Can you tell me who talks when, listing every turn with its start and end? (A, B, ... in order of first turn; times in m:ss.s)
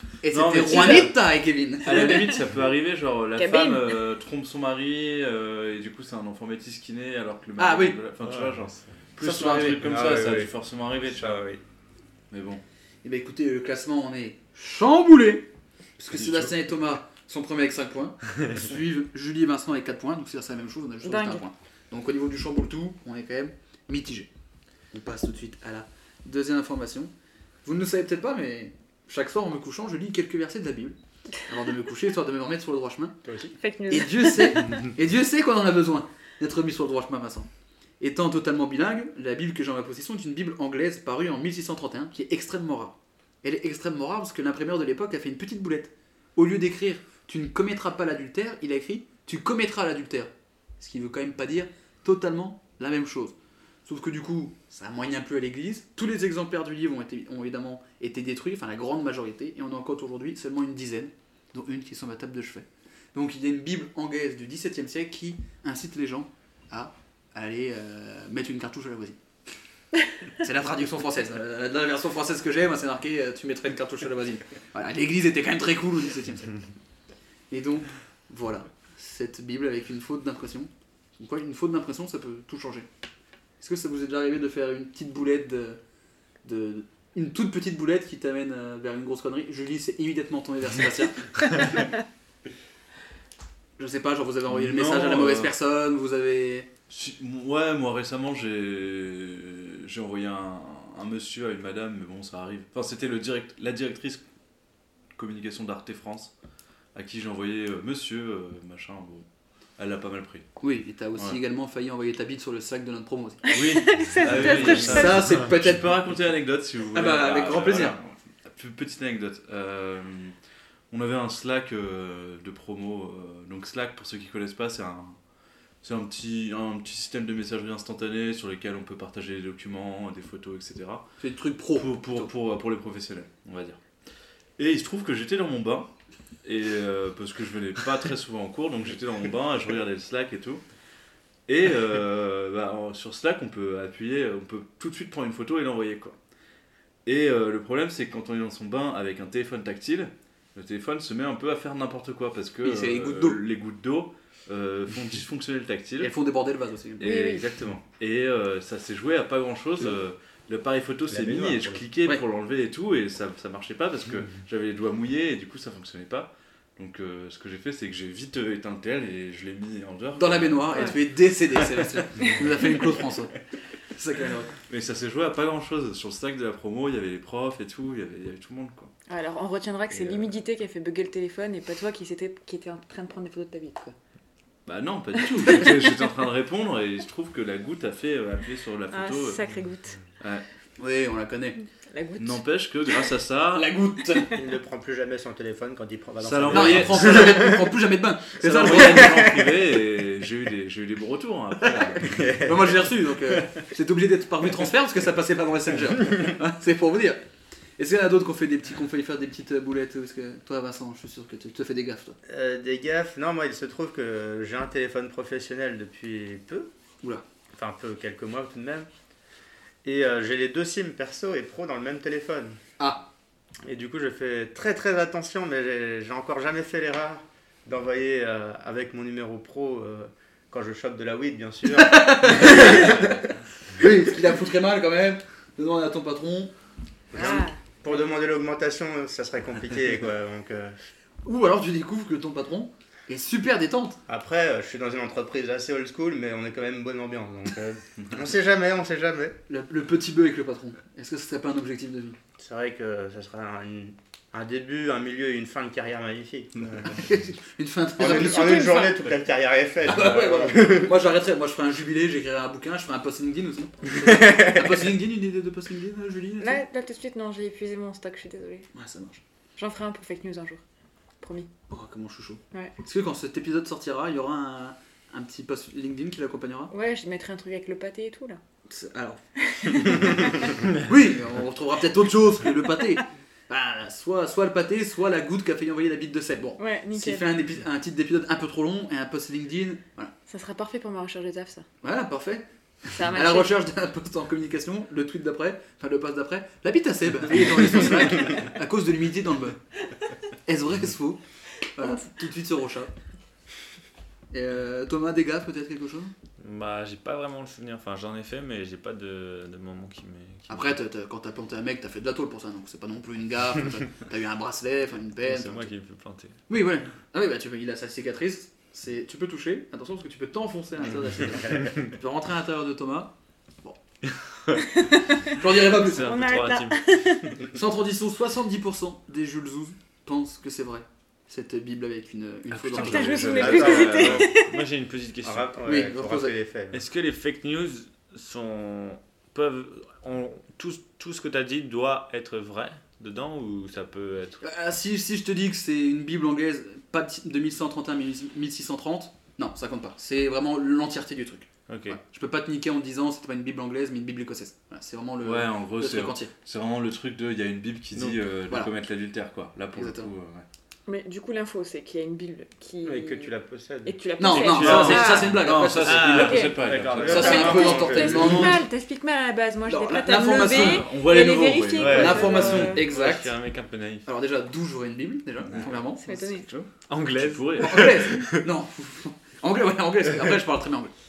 0:00.2-0:02.3 A
0:00.3-0:01.1 B
0:01.8-0:11.4 B
0:01.9-0:02.4 C
0:03.4-0:04.0 C
0:07.6-0:08.0 A
0:08.2-0:08.6 D
0:09.2-0:09.8 A
0:09.6-0:10.5 E
0:11.1-0:11.6 E
0:12.3-0:12.6 B
0:13.0-0:24.3 A
0:21.0-0:21.4 C
0:24.9-0:27.1 A
0:27.6-0:31.0 A
0:31.5-0:33.2 A
0:33.2-0:33.6 E
0:33.6-0:34.8 C
0:33.9-0:37.5 A
0:38.0-1:09.2 A
1:10.4-1:16.6 A
1:17.5-1:22.9 A
1:23.6-1:25.8 A
1:26.4-1:31.6 A
1:33.8-1:36.7 A
1:34.5-1:35.6 B
1:36.9-1:44.2 B
1:45.2-1:46.3 B
1:47.0-1:49.3 B
1:49.8-1:50.5 B
1:50.6-1:53.5 A
1:53.5-1:55.3 C
1:53.5-2:00.4 B
1:54.7-1:55.8 A
1:56.9-1:58.0 A
2:00.9-2:05.2 B
2:05.8-2:11.1 B
2:11.2-2:12.3 A
2:11.8-2:13.8 B
2:14.6-2:15.9 B
2:16.4-2:20.6 B
2:21.5-2:26.2 B
2:27.0-2:36.1 B
2:32.6-2:33.4 A
2:36.0-2:37.3 A
2:37.0-2:51.0 B
2:37.0-2:37.4 C
2:41.1-2:41.8 E
2:50.2-2:53.4 A
2:52.2-2:52.8 C
2:53.9-2:54.5 A
2:54.7-2:58.9 B
2:59.1-3:04.0 C
3:04.7-3:09.5 B
3:05.4-3:05.8 C
3:08.9-3:10.0 C
3:10.2-3:10.4 B
3:10.8-3:11.6 A
3:11.9-3:12.9 C
3:12.2-3:13.7 B
3:13.5-3:14.4 A
3:14.3-3:17.7 E
3:16.2-3:17.5 B
3:16.5-3:19.3 A
3:18.4-3:22.2 B
3:18.6-3:19.6 E
3:22.0-3:22.8 E
3:22.3-3:27.2 A
3:27.8-3:32.2 A
3:32.3-3:36.7 E
3:37.6-3:38.9 E
3:39.8-3:42.6 E
3:42.8-3:43.1 A
3:43.6-3:53.1 E
3:51.7-3:56.5 A
3:57.1-4:00.8 E
3:57.1-3:57.6 C
4:01.2-4:04.0 A
4:04.1-4:09.4 E
4:09.5-4:12.2 A
4:12.4-4:17.0 E
4:16.9-4:18.8 A
4:18.0-4:20.9 E
4:18.3-4:19.0 C
4:19.8-4:26.6 A
4:24.1-4:24.6 E
4:26.4-4:28.7 C
4:28.7-4:29.2 A
4:29.6-4:30.6 C
4:31.2-4:31.5 C
4:31.7-4:36.7 A
4:36.7-4:38.4 C
4:38.7-4:50.1 A
4:39.4-4:40.5 C
4:46.6-4:47.3 C
4:50.3-4:51.7 C
4:51.8-4:59.6 A
4:52.9-4:53.6 C
5:00.5-5:01.2 A
5:01.7-5:02.9 A
5:04.3-5:06.1 A
5:06.4-5:10.8 D
5:10.5-5:15.7 A
5:15.3-5:16.4 D
5:16.5-5:23.8 A
5:21.2-5:21.8 E
5:24.1-5:24.6 D
5:24.6-5:27.4 C
5:25.3-5:26.2 A
5:25.7-5:27.0 D
5:27.5-5:33.6 A
5:32.5-5:34.3 B
5:32.7-5:34.6 C
5:33.4-5:34.4 E
5:33.5-5:35.6 D
5:35.2-5:36.8 E
5:35.6-5:36.4 A
5:36.7-5:44.4 D
5:44.4-5:56.3 A
5:51.7-5:52.0 D
5:55.2-6:00.4 B
5:58.0-5:58.7 A
5:59.8-6:00.1 A
6:00.9-6:03.3 C
6:02.8-6:04.0 E
6:03.8-6:05.4 C
6:04.2-6:06.4 A
6:04.4-6:08.4 B
6:04.5-6:05.2 D
6:05.8-6:07.1 D
6:06.1-6:06.6 C
6:06.6-6:08.5 E
6:07.0-6:08.6 A
6:07.1-6:12.8 C
6:09.7-6:10.9 A
6:10.2-6:12.8 B
6:11.8-6:14.1 D
6:11.9-6:13.3 A
6:14.0-6:16.2 A
6:15.5-6:15.7 B
6:16.0-6:16.5 C
6:16.5-6:18.0 B
6:16.9-6:18.4 D
6:17.6-6:20.9 A